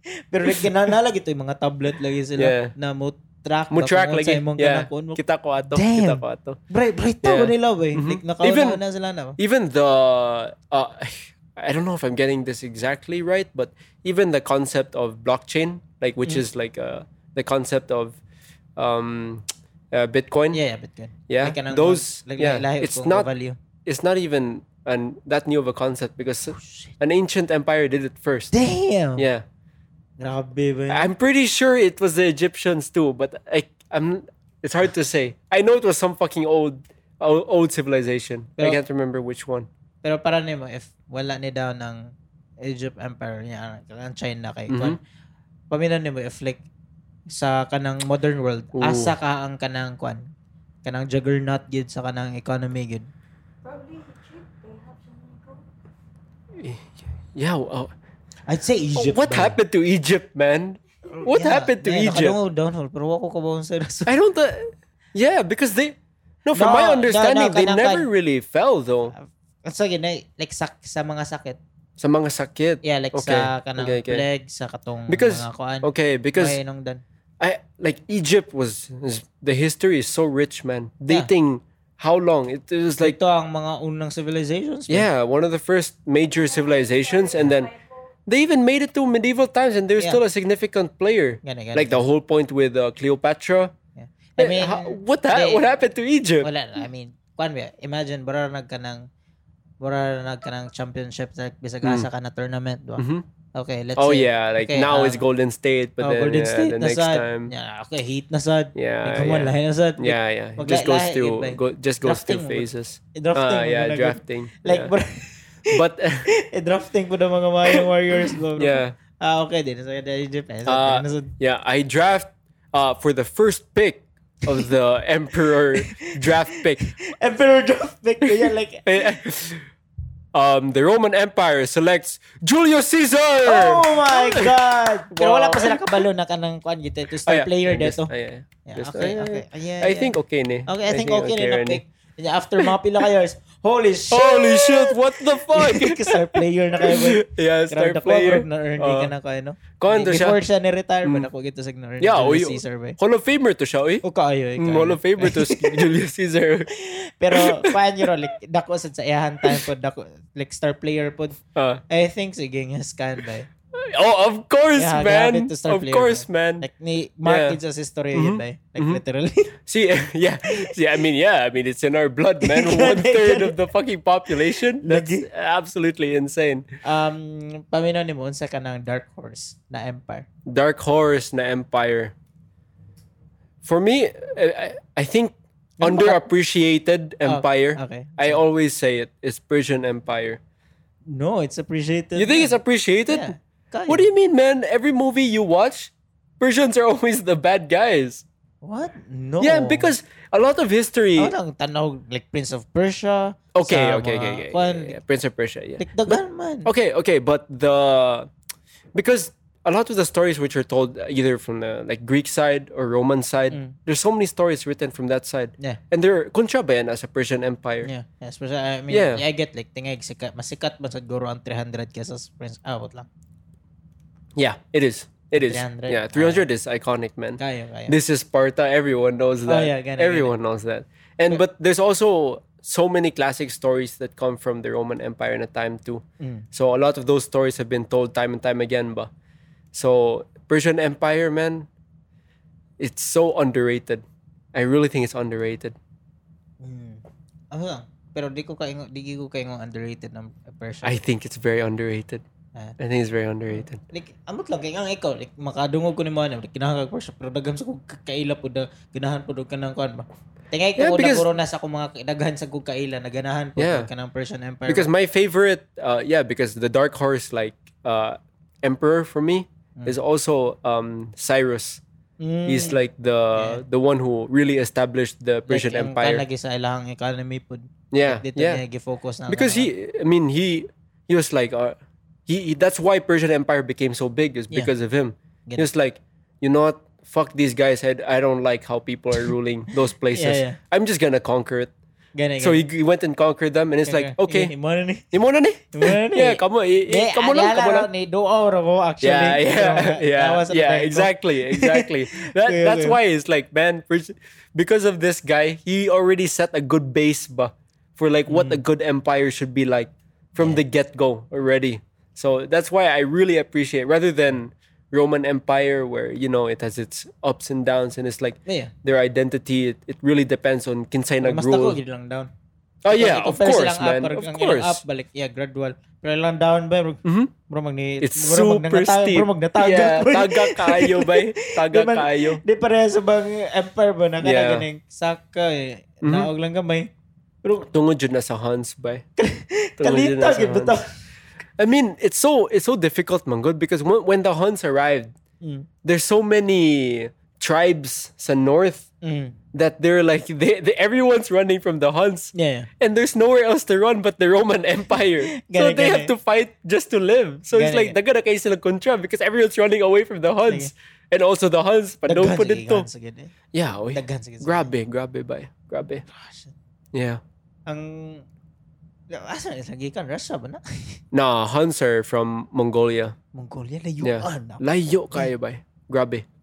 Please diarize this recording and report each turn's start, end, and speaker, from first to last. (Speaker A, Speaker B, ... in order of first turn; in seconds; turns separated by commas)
Speaker A: 0.3-9.3, Speaker B: 0.5-0.7, Speaker B: 2.4-2.7, Speaker B: 3.7-6.6, Speaker B: 7.2-8.8, Speaker B: 9.4-18.2, Speaker B: 18.8-20.6, Speaker A: 20.5-23.6, Speaker B: 21.3-23.3, Speaker B: 23.8-28.5, Speaker A: 26.6-26.9, Speaker A: 28.5-29.2, Speaker B: 29.2-29.4, Speaker A: 30.2-31.1, Speaker B: 30.9-39.7, Speaker A: 40.0-42.1, Speaker A: 42.6-45.0, Speaker B: 44.7-45.0, Speaker A: 45.7-46.6, Speaker A: 47.3-50.2, Speaker B: 48.7-49.1, Speaker A: 50.8-53.1, Speaker C: 53.6-55.6, Speaker B: 56.6-57.9, Speaker A: 58.5-59.6, Speaker B: 58.9-62.4, Speaker A: 61.2-64.1, Speaker B: 64.0-69.1, Speaker A: 66.5-68.1, Speaker A: 69.1-71.6, Speaker B: 72.0-74.2, Speaker A: 72.8-77.0, Speaker B: 75.1-76.6, Speaker B: 77.4-83.2, Speaker A: 83.0-85.1, Speaker B: 84.9-87.7, Speaker C: 86.3-88.1, Speaker B: 88.3-93.7, Speaker A: 91.4-92.0, Speaker A: 94.0-95.7, Speaker B: 94.4-96.5, Speaker A: 96.4-99.1, Speaker A: 99.8-105.2, Speaker B: 103.0-103.2, Speaker B: 104.0-107.5, Speaker A: 106.0-115.8, Speaker B: 108.7-114.9, Speaker B: 115.7-116.3, Speaker A: 116.3-121.3, Speaker B: 117.7-118.9, Speaker B: 120.7-126.8, Speaker A: 125.8-129.2, Speaker B: 128.2-129.7, Speaker B: 130.3-134.5, Speaker A: 133.4-138.1, Speaker B: 135.1-135.9, Speaker B: 137.2-141.8, Speaker A: 138.7-140.1, Speaker A: 140.7-153.0, Speaker B: 144.1-149.1, Speaker B: 149.8-150.4, Speaker B: 152.0-154.0, Speaker A: 154.0-155.8, Speaker B: 154.6-156.7, Speaker A: 156.7-161.4, Speaker B: 157.3-158.0, Speaker B: 161.5-161.8, Speaker A: 161.9-163.5, Speaker B: 163.8-166.7, Speaker A: 164.8-169.5, Speaker B: 167.2-167.6, Speaker B: 168.1-169.0, Speaker B: 169.7-176.7, Speaker A: 172.4-173.6, Speaker A: 174.3-175.3, Speaker A: 176.8-180.3, Speaker B: 180.5-182.1, Speaker B: 183.6-190.4, Speaker A: 185.8-186.2, Speaker A: 187.2-188.4, Speaker A: 191.1-192.6, Speaker B: 192.2-193.3, Speaker A: 193.1-194.1, Speaker B: 193.9-198.2, Speaker A: 198.6-199.9, Speaker B: 199.4-201.3, Speaker A: 201.2-205.0, Speaker B: 203.5-208.3, Speaker A: 205.8-206.7, Speaker B: 208.9-217.9, Speaker A: 217.8-223.1, Speaker B: 218.9-219.2, Speaker B: 224.4-239.1, Speaker A: 225.3-226.5, Speaker A: 227.4-227.9, Speaker A: 229.5-230.3, Speaker A: 236.2-236.4, Speaker B: 239.7-241.7, Speaker B: 242.8-245.8, Speaker A: 246.6-251.0, Speaker B: 250.8-252.2, Speaker B: 252.8-253.8, Speaker A: 253.5-264.9, Speaker B: 260.8-261.3, Speaker B: 263.6-263.9, Speaker B: 264.7-271.8, Speaker A: 272.2-272.8, Speaker B: 272.4-276.2, Speaker A: 273.4-273.6, Speaker A: 275.5-279.7, Speaker B: 277.9-278.6, Speaker B: 279.3-291.7, Speaker A: 290.1-290.6, Speaker A: 292.1-292.6, Speaker B: 292.4-294.5, Speaker A: 293.9-295.1, Speaker B: 295.1-297.9, Speaker A: 295.7-303.0, Speaker B: 299.0-321.8, Speaker A: 308.3-308.6, Speaker A: 318.5-318.7, Speaker A: 321.2-322.3, Speaker B: 322.8-324.8, Speaker A: 322.9-336.9, Speaker B: 327.0-327.3, Speaker B: 328.0-332.4, Speaker B: 334.2-334.7, Speaker B: 336.0-336.3, Speaker B: 337.7-339.1, Speaker A: 339.2-340.8, Speaker B: 339.8-340.7, Speaker B: 341.6-345.1, Speaker A: 345.4-345.7, Speaker B: 345.8-348.9, Speaker A: 349.0-349.4, Speaker B: 349.5-362.9, Speaker A: 352.3-352.7, Speaker A: 355.4-356.1, Speaker A: 357.5-357.9, Speaker A: 362.1-363.3, Speaker B: 363.5-366.0, Speaker A: 363.9-364.7, Speaker A: 366.1-366.5, Speaker B: 366.9-367.2, Speaker A: 367.7-368.2, Speaker A: 369.1-371.0, Speaker B: 371.1-373.1, Speaker A: 373.3-374.6, Speaker B: 374.0-376.2